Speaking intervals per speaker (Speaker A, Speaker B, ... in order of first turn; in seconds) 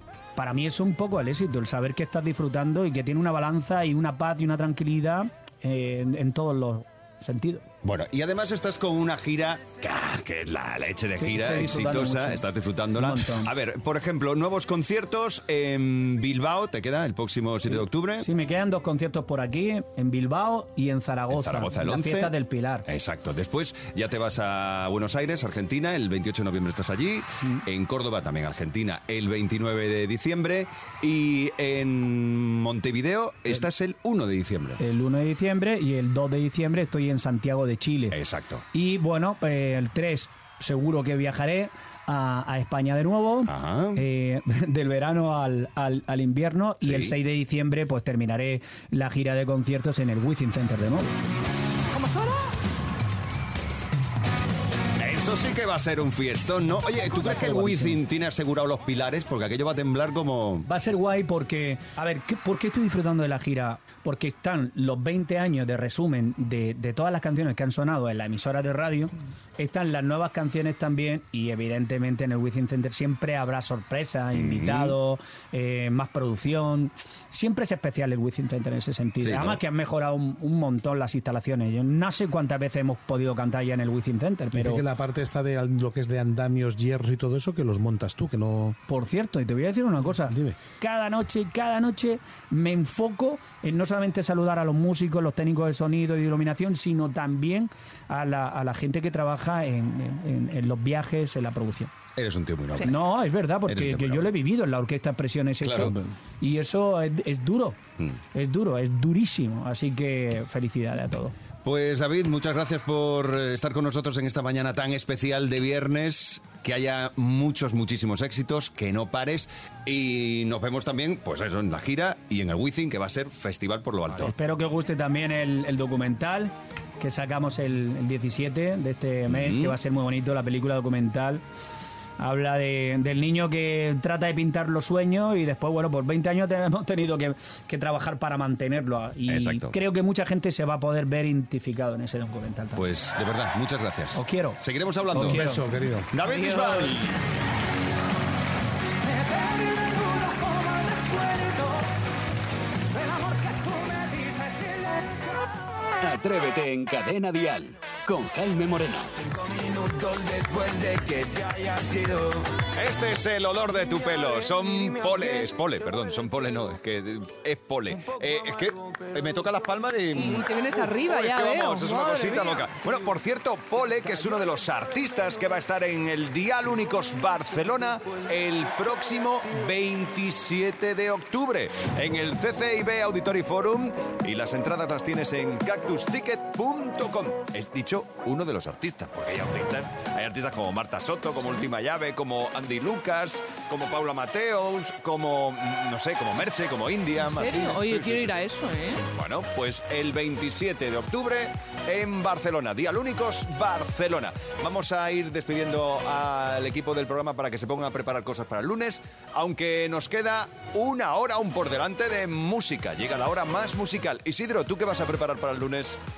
Speaker A: 0.3-7.7, 11.2-12.4, 12.9-13.5, 17.7-22.9, 34.8-38.2, 38.7-51.1, 57.0-58.0, 60.7-84.8, 88.9-101.9, 102.8-107.8, 108.3-111.3, 124.1-131.4, 132.2-142.8, 144.1-145.6
Speaker B: 7.8-18.3, 21.3-22.3, 22.9-34.8, 38.1-38.6, 43.5-44.0, 46.8-47.1, 55.0-60.7, 74.3-75.0, 79.2-79.6, 102.2-103.0, 103.7-104.3, 105.6-106.0, 111.6-124.3, 129.3-129.7, 139.3-139.8, 142.8-145.5, 146.1-147.1, 159.7-198.4, 199.1-216.0
Speaker C: 84.5-88.8, 90.1-90.6, 145.1-146.1
Speaker D: 156.0-159.1
Speaker E: 170.1-172.7, 197.2-199.0